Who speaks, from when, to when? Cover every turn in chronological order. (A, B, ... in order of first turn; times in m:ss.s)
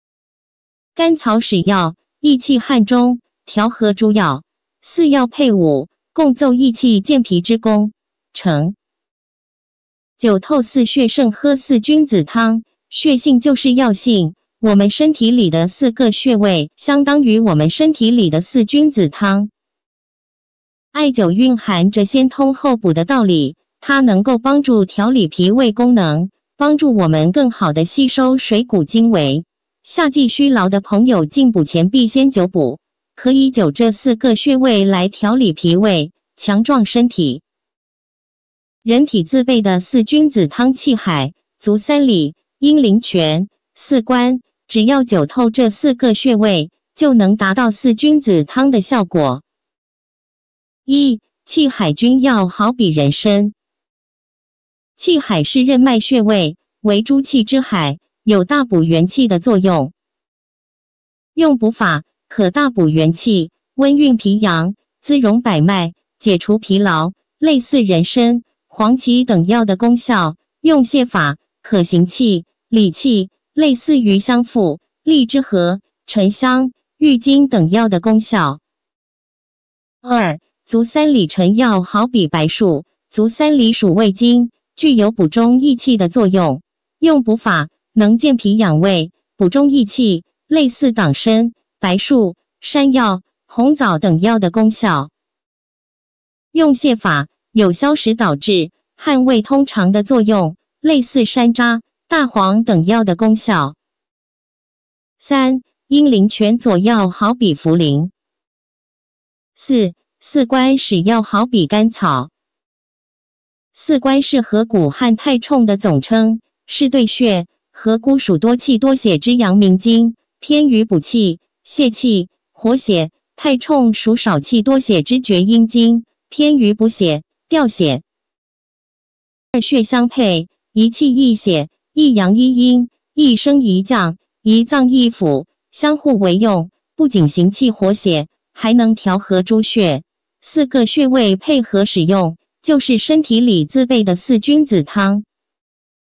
0:00.9-0:08.8 A
0:10.2-0:19.5 A
0:20.9-0:37.4 A
0:38.8-0:49.4 A
0:50.8-0:53.5 A
0:55.0-0:59.9 A
1:01.3-1:18.6 A
1:20.0-1:35.1 A
1:36.5-1:43.8 A
1:45.2-1:48.1 A
1:49.6-1:52.3 A
1:53.7-2:08.0 A
2:09.5-2:25.2 A